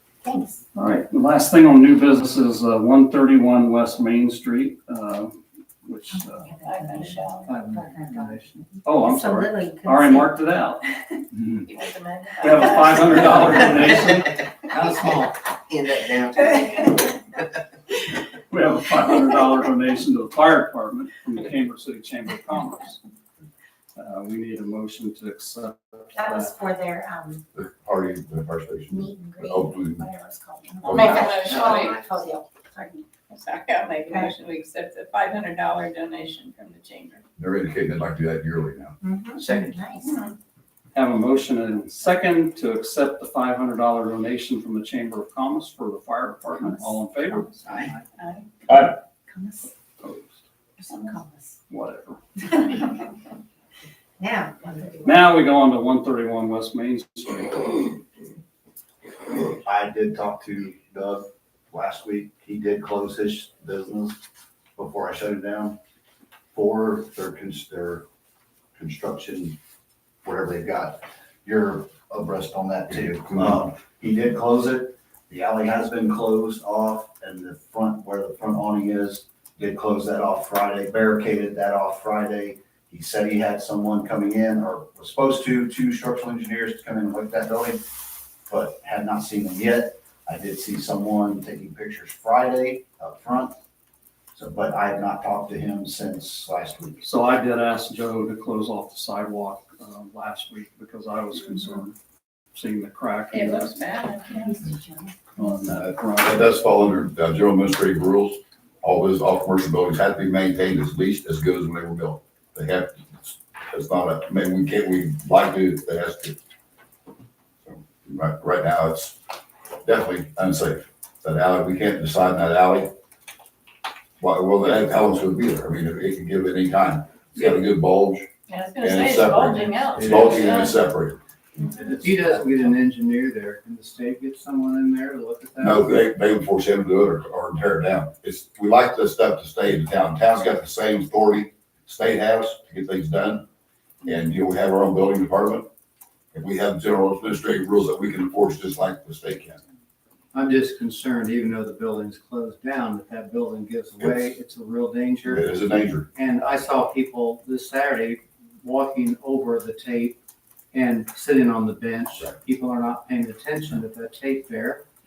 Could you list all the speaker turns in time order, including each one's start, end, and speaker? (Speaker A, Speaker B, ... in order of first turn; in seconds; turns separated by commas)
Speaker A: 0.2-0.6, Speaker B: 0.8-6.5, Speaker A: 6.1-10.4, Speaker C: 6.6-7.5, Speaker D: 7.5-8.6, Speaker B: 8.8-10.9, Speaker C: 11.6-13.2, Speaker B: 12.4-14.4, Speaker D: 14.7-15.4, Speaker B: 18.5-23.0, Speaker B: 24.0-26.5, Speaker A: 26.1-27.4, Speaker E: 27.6-30.1, Speaker A: 28.9-33.0, Speaker E: 30.9-31.3, Speaker C: 31.1-32.1, Speaker C: 33.3-37.2, Speaker E: 37.4-39.0, Speaker A: 39.0-40.2, Speaker D: 39.4-39.8, Speaker C: 40.0-40.3, Speaker B: 40.9-47.5, Speaker A: 46.6-47.7, Speaker C: 48.1-48.5, Speaker A: 48.8-49.7, Speaker B: 50.0-50.3, Speaker C: 50.8-51.1, Speaker A: 50.8-51.6, Speaker B: 51.7-52.2, Speaker A: 54.2-55.4, Speaker B: 55.0-57.9, Speaker F: 59.6-64.2, Speaker F: 64.8-65.8, Speaker F: 66.5-68.1, Speaker F: 68.8-69.6, Speaker F: 70.2-87.8, Speaker F: 88.5-93.6, Speaker F: 94.3-97.1, Speaker B: 97.0-102.0, Speaker B: 102.5-103.8, Speaker C: 103.3-104.5, Speaker A: 104.3-105.6, Speaker B: 105.4-106.5, Speaker E: 106.2-116.4, Speaker E: 117.7-119.2, Speaker E: 119.9-122.9, Speaker E: 124.2-128.3, Speaker C: 128.5-130.8, Speaker E: 128.8-131.2, Speaker D: 130.0-130.4, Speaker D: 131.7-136.0, Speaker E: 135.6-143.5, Speaker E: 144.0-145.7, Speaker E: 146.3-149.6, Speaker D: 150.3-160.2, Speaker E: 154.0-154.4, Speaker E: 155.3-156.1, Speaker D: 160.7-164.8